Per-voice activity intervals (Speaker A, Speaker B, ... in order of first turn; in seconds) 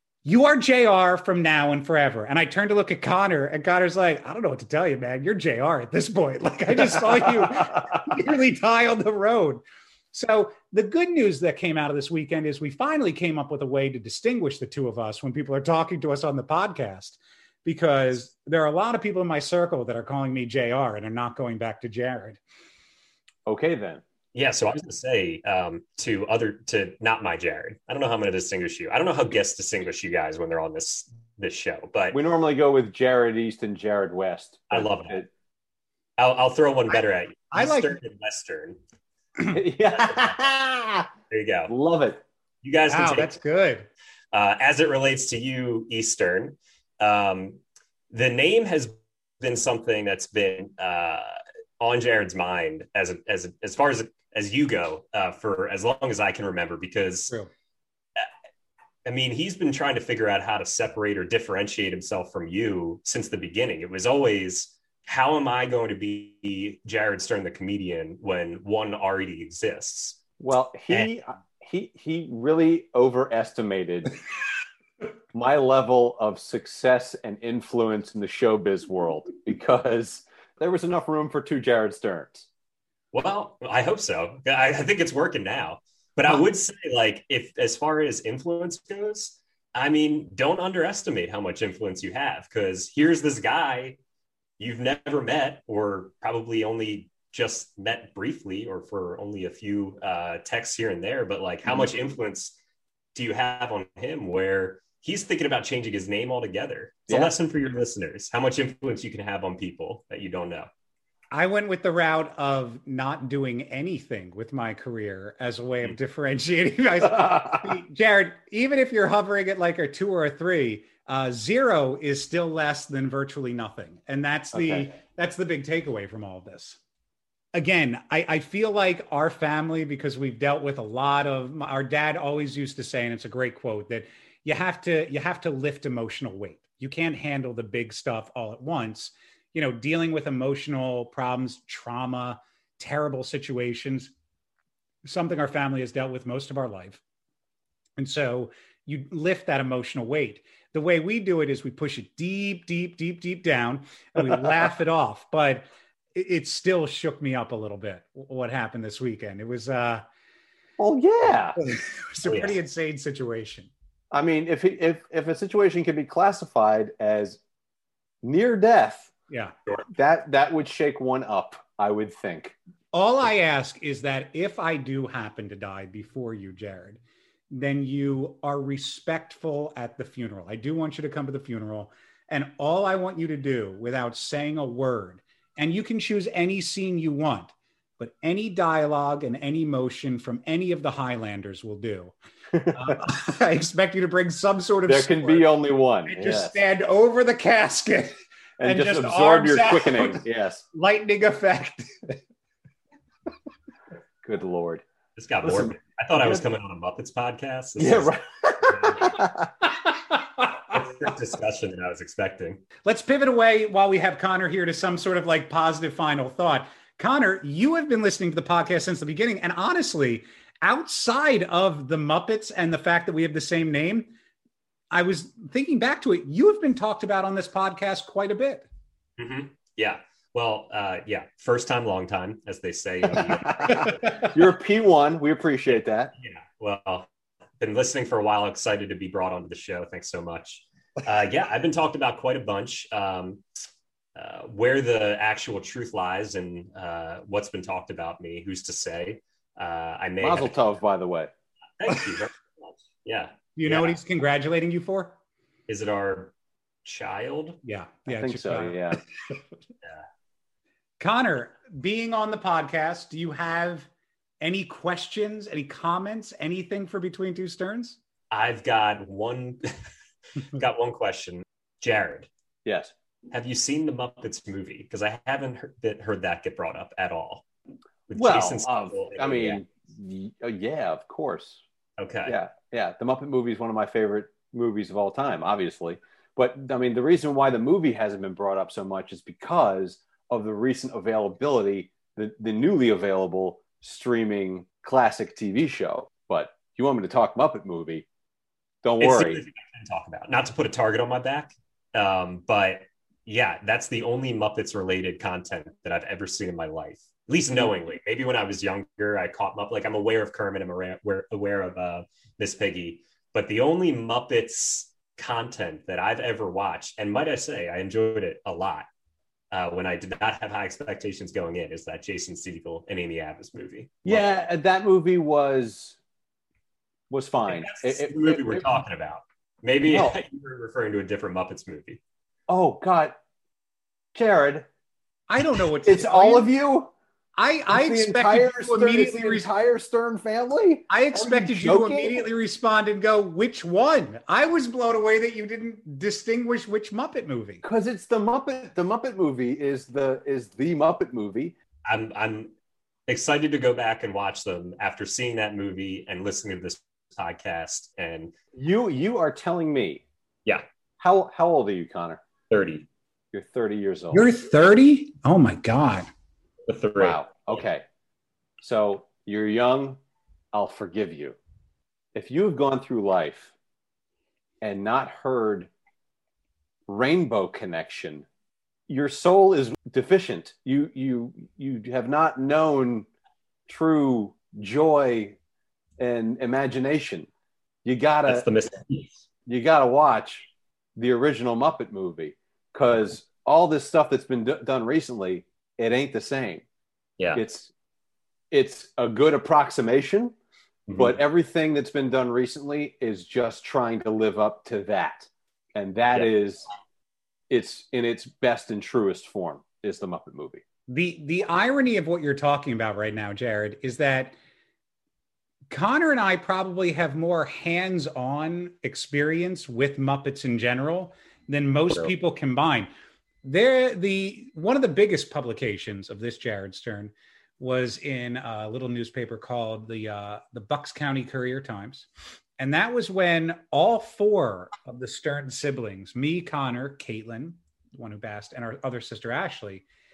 Speaker A: 0.2-22.4, 37.5-38.0, 42.9-43.9, 111.3-126.8, 127.5-144.1, 145.0-147.0, 148.0-160.0, 161.6-163.7, 172.9-192.1, 192.7-195.5, 196.0-202.2, 212.8-224.1, 224.9-228.7, 253.6-255.2, 257.6-259.0, 261.0-263.9, 264.4-268.0, 335.3-336.5, 337.4-339.5, 340.9-347.6, 364.1-366.1, 410.9-414.3, 415.7-422.9, 423.4-432.1, 432.6-439.8
Speaker B: 7.1-7.8, 23.4-24.0, 32.1-35.3, 39.5-41.1, 41.7-42.2, 70.4-74.1, 75.3-82.5, 124.5-124.9, 160.8-161.6, 164.1-167.4, 168.2-169.1, 169.9-172.6, 192.5-193.0, 194.9-196.6, 198.6-200.6, 204.2-204.8, 205.4-206.4, 207.8-209.5, 233.2-236.1, 250.2-251.3, 258.1-259.0, 272.6-272.9, 278.1-281.6, 282.2-298.1, 298.8-299.4, 324.0-326.0, 327.1-328.7, 329.9-330.2, 332.5-333.2, 334.1-334.7, 335.8-336.9, 337.7-342.2, 347.6-351.5, 358.5-360.0, 361.0-362.2, 363.3-364.2, 367.0-367.8, 368.6-370.0, 370.5-371.4, 372.1-373.5, 374.6-375.7, 376.9-378.2, 378.9-383.1, 383.7-385.4, 386.0-387.3, 387.8-388.5, 389.4-396.6, 397.3-397.7, 398.5-400.3, 400.9-406.6, 407.5-410.6
Speaker C: 24.3-32.2, 34.7-35.2, 36.2-38.8, 41.3-41.7, 42.6-43.3, 44.3-47.6, 48.1-57.3, 59.0-70.2, 83.1-94.0, 94.6-102.5, 103.1-110.7, 162.2-162.6, 205.2-209.2, 210.6-212.6, 229.2-234.2, 236.2-237.1, 237.6-243.4, 244.1-250.5, 251.8-254.0, 255.7-256.3, 256.8-257.6, 268.3-269.7, 270.5-272.3, 273.3-277.4, 278.1-279.6, 282.0-282.4, 299.0-318.9, 319.5-324.2, 327.5-332.0, 351.9-352.5, 353.1-358.3, 362.5-362.9, 366.7-367.6, 388.2-389.2, 400.9-401.1